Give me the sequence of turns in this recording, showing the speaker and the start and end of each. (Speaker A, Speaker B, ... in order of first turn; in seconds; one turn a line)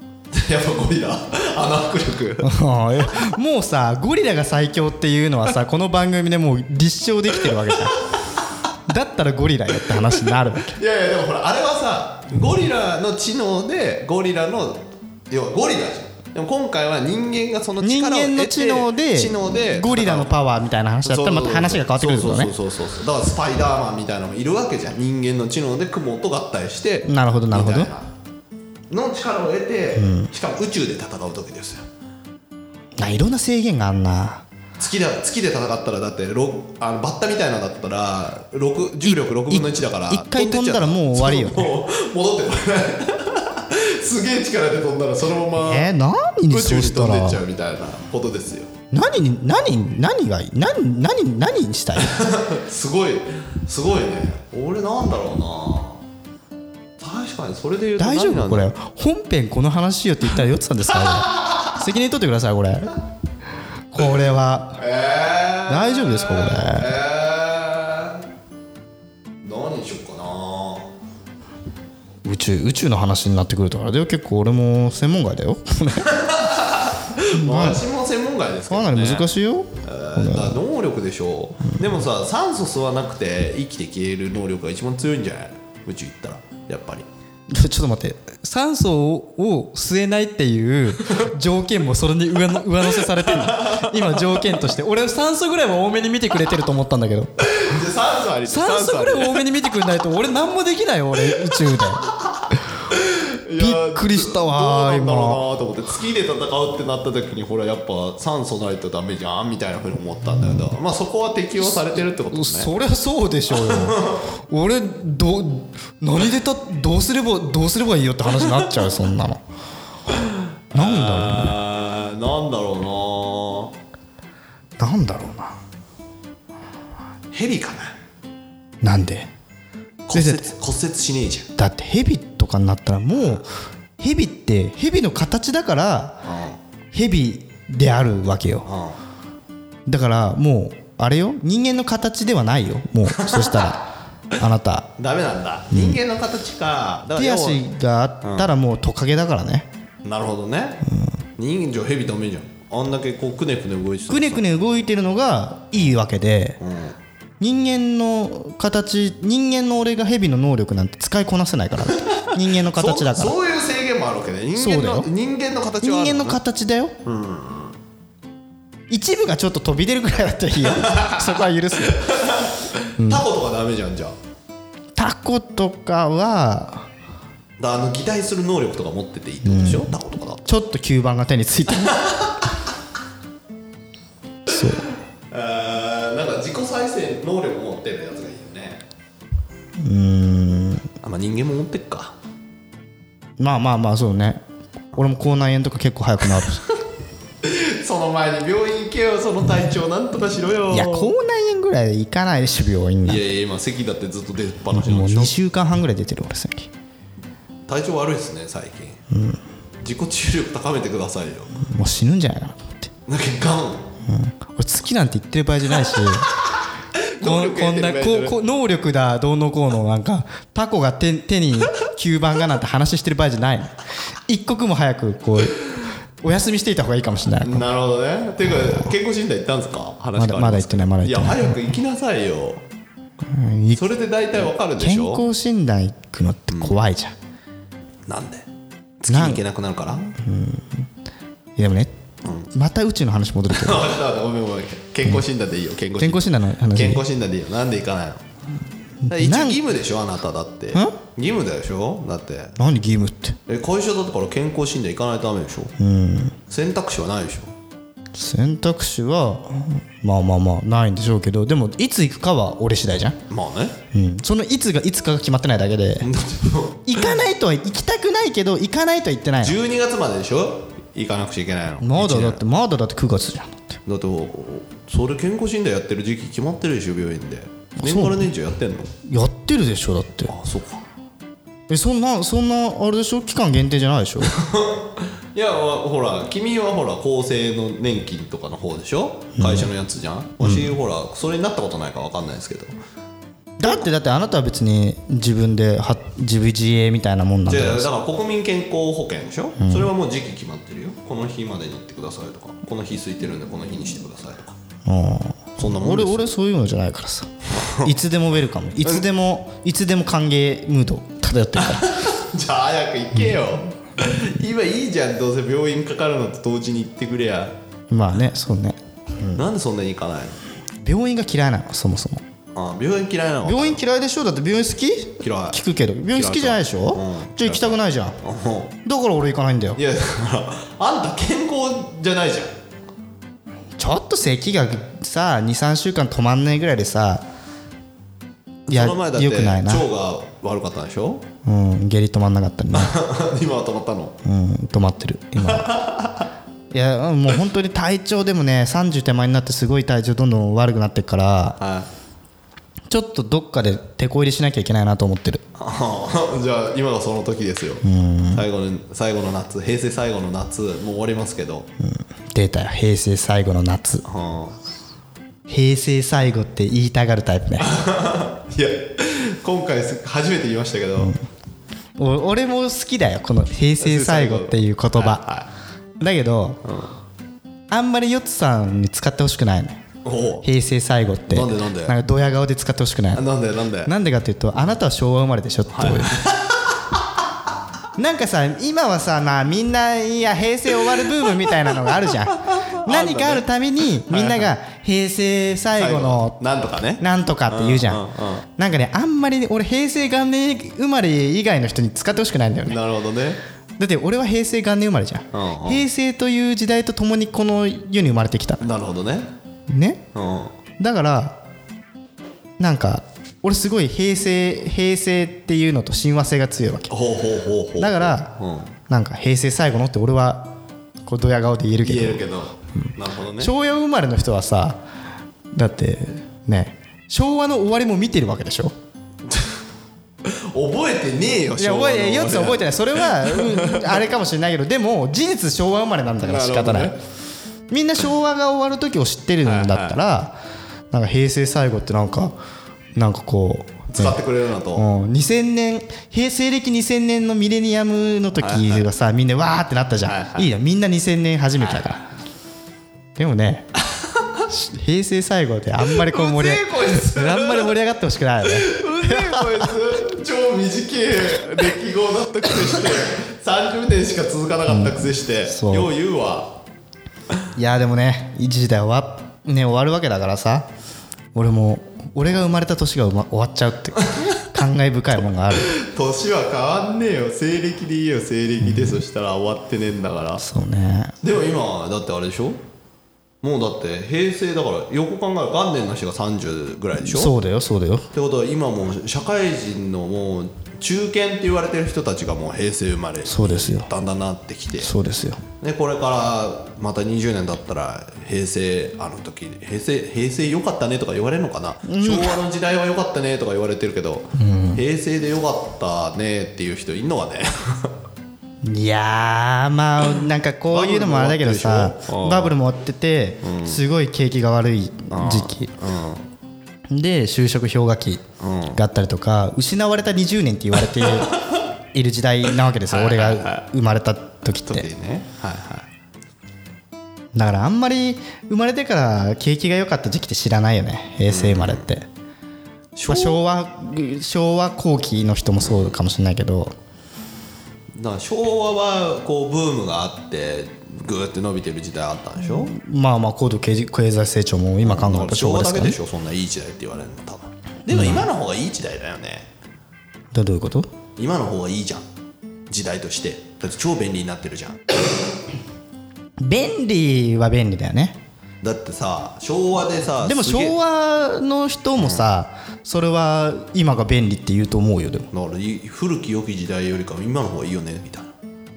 Speaker A: 0.3-2.5
Speaker B: 2.4-8.1
Speaker B: 8.9-10.8
Speaker A: 9.9-20.4
Speaker B: 17.8-22.5
Speaker A: 21.1-28.1
Speaker B: 27.1-27.9
Speaker A: 28.9-31.9
Speaker B: 29.9-30.3
Speaker B: 33.0-34.5
Speaker A: 34.8-45.9
Speaker B: 39.0-41.7
Speaker B: 45.6-47.4
Speaker A: 46.5-48.7
Speaker B: 48.9-52.2
Speaker A: 52.0-56.0
Speaker A: 57.0-58.7
Speaker B: 58.0-63.0
Speaker A: 61.0-61.8
Speaker B: 63.9-64.8
Speaker A: 64.8-68.3
Speaker B: 65.7-67.0
Speaker A: 69.4-70.9
Speaker B: 72.2-76.3
Speaker A: 76.0-79.3
Speaker B: 77.3-77.8
Speaker B: 78.7-80.6
Speaker A: 79.8-87.1
Speaker B: 87.5-97.6
Speaker A: 92.8-94.6
Speaker A: 97.5-99.5
Speaker B: 98.5-102.6
Speaker A: 101.2-102.3
Speaker A: 102.9-112.7
Speaker B: 103.6-105.4
Speaker B: 112.3-119.4
Speaker A: 113.5-114.2
Speaker A: 118.3-118.9
Speaker A: 120.1-123.8
Speaker B: 120.7-121.6
Speaker B: 124.8-125.6
Speaker A: 127.3-128.0
Speaker B: 128.8-129.3
Speaker A: 130.1-131.5
Speaker B: 130.1-130.5
Speaker B: 131.6-136.2
Speaker A: 136.2-136.6
Speaker B: 136.9-138.7
Speaker A: 138.7-139.0
Speaker B: 139.9-144.9
Speaker A: 143.1-143.8
Speaker A: 145.0-147.6
Speaker B: 145.7-146.0
Speaker B: 147.2-149.7
Speaker A: 148.2-148.5
Speaker A: 150.0-154.4
Speaker B: 150.9-151.2
Speaker B: 154.1-156.6
Speaker A: 156.6-157.0
Speaker B: 157.4-163.4
Speaker A: 162.1-166.4
Speaker B: 164.6-165.1
Speaker B: 165.8-166.9
Speaker A: 167.1-167.8
Speaker B: 168.9-172.3
Speaker A: 170.6-174.2
Speaker B: 173.0-173.2
Speaker B: 175.0-176.9
Speaker A: 177.6-180.5
Speaker B: 179.4-182.1
Speaker A: 181.8-182.6
Speaker B: 184.5-184.9
Speaker A: 185.3-188.8
Speaker B: 189.8-190.9
Speaker A: 191.0-192.2
Speaker B: 193.4-194.4
Speaker B: 194.9-196.6
Speaker A: 196.4-196.8
Speaker A: 197.4-201.1
Speaker B: 200.7-203.2
Speaker A: 203.1-205.3
Speaker B: 204.7-206.7
Speaker A: 207.7-209.0
Speaker B: 209.1-209.4
Speaker A: 209.8-211.6
Speaker B: 211.6-212.9
Speaker A: 213.1-213.9
Speaker B: 214.1-216.3
Speaker A: 215.8-216.3
Speaker A: 216.9-218.3
Speaker B: 217.2-223.8
Speaker B: 224.3-225.6
Speaker B: 226.2-227.7
Speaker A: 227.4-232.7
Speaker B: 228.5-228.9
Speaker B: 230.2-231.6
Speaker B: 233.3-233.8
Speaker A: 233.7-235.2
Speaker B: 234.8-237.1
Speaker A: 238.1-238.5
Speaker A: 239.0-240.1
Speaker B: 239.1-239.4
Speaker B: 240.0-240.9
Speaker B: 241.6-241.9
Speaker A: 242.2-242.5
Speaker B: 242.5-243.9
Speaker A: 243.5-248.2
Speaker B: 246.0-247.0
Speaker B: 249.0-249.6
Speaker A: 249.1-252.6
Speaker B: 252.6-253.4
Speaker A: 253.5-255.7
Speaker B: 255.8-256.4
Speaker A: 256.5-257.5
Speaker B: 258.1-263.2
Speaker A: 263.3-263.8
Speaker B: 263.9-266.1
Speaker A: 266.0-267.2
Speaker B: 266.9-269.6
Speaker A: 269.4-272.4
Speaker B: 271.8-273.8
Speaker A: 273.9-278.9
Speaker B: 277.8-278.3
Speaker B: 279.1-280.3
Speaker A: 280.3-280.9
Speaker B: 281.7-284.4
Speaker A: 284.2-292.8
Speaker B: 289.4-289.7
Speaker B: 290.4-290.7
Speaker B: 293.6-297.9
Speaker A: 297.5-304.6
Speaker B: 299.6-299.9
Speaker B: 304.9-312.0
Speaker A: 305.6-306.3
Speaker A: 307.5-307.9
Speaker A: 311.6-317.6
Speaker B: 317.9-319.5
Speaker A: 319.4-320.4
Speaker B: 320.8-322.2
Speaker A: 322.6-323.8
Speaker B: 323.4-328.2
Speaker A: 325.2-328.7
Speaker B: 328.8-329.8
Speaker A: 329.8-332.6
Speaker B: 333.8-337.2
Speaker A: 338.7-341.2
Speaker B: 338.7-339.9
Speaker B: 341.4-343.0
Speaker A: 342.7-344.1
Speaker B: 344.2-345.8
Speaker A: 345.4-346.3
Speaker B: 346.7-351.6
Speaker A: 351.6-351.9
Speaker B: 352.9-355.4
Speaker A: 355.6-361.7
Speaker B: 357.8-358.5
Speaker B: 361.8-364.1
Speaker A: 364.1-364.6
Speaker B: 365.5-367.8
Speaker A: 367.6-371.2
Speaker B: 372.0-375.2
Speaker A: 373.8-375.5
Speaker B: 376.0-376.6
Speaker A: 376.6-377.0
Speaker B: 377.7-379.8
Speaker A: 380.0-380.5
Speaker B: 380.4-383.2
Speaker A: 381.3-381.9
Speaker A: 383.1-383.9
Speaker B: 383.9-386.3
Speaker A: 385.7-387.2
Speaker B: 388.0-396.4
Speaker A: 390.9-393.4
Speaker A: 394.0-394.5
Speaker A: 395.8-398.4
Speaker B: 397.0-402.8
Speaker A: 402.7-403.4
Speaker B: 403.8-408.6
Speaker A: 405.3-405.8
Speaker A: 408.6-409.3
Speaker B: 409.7-410.0
Speaker A: 410.1-410.6
Speaker B: 410.8-411.4
Speaker B: 412.6-416.9
Speaker A: 416.9-418.7
Speaker B: 417.8-418.3
Speaker B: 418.9-420.5
Speaker B: 421.1-422.2
Speaker A: 421.8-423.5
Speaker B: 422.8-424.8
Speaker B: 425.5-428.7
Speaker A: 429.3-429.6
Speaker A: 430.2-434.0
Speaker B: 431.6-436.9
Speaker A: 436.2-437.0
Speaker B: 437.7-440.4
Speaker A: 439.4-440.0
Speaker B: 440.9-442.4
Speaker B: 442.9-444.2
Speaker A: 443.9-444.9
Speaker B: 444.7-452.0
Speaker A: 448.4-448.9
Speaker A: 450.1-450.5
Speaker A: 451.6-451.9
Speaker B: 453.2-453.8
Speaker A: 454.0-454.4
Speaker B: 454.5-459.7
Speaker A: 455.8-457.8
Speaker A: 458.4-466.6
Speaker B: 464.7-465.9
Speaker B: 467.6-470.7
Speaker B: 471.4-475.8
Speaker A: 475.5-480.4
Speaker B: 478.6-479.0
Speaker B: 480.4-481.2
Speaker A: 481.2-482.6
Speaker A: 483.4-487.4
Speaker B: 487.0-488.1
Speaker A: 488.1-494.9
Speaker B: 493.3-493.9
Speaker B: 494.8-495.4
Speaker A: 495.6-507.9
Speaker B: 501.9-502.4
Speaker B: 504.4-504.8
Speaker B: 508.6-515.7
Speaker A: 510.7-512.6
Speaker A: 513.4-513.8
Speaker A: 515.1-516.3
Speaker B: 516.9-524.9
Speaker A: 518.4-518.8
Speaker A: 520.8-521.6
Speaker A: 522.9-523.7
Speaker A: 524.6-525.9
Speaker B: 527.4-532.1
Speaker A: 531.3-531.9
Speaker A: 533.0-533.4
Speaker B: 533.1-536.8
Speaker A: 535.6-535.9
Speaker A: 537.9-542.7
Speaker B: 542.5-546.0
Speaker A: 544.8-549.5
Speaker B: 547.9-548.3
Speaker B: 550.3-550.9
Speaker A: 551.2-552.1
Speaker A: 552.7-554.9
Speaker B: 556.4-558.2
Speaker A: 558.6-560.8
Speaker B: 560.2-565.3
Speaker A: 562.0-562.2
Speaker A: 565.3-568.4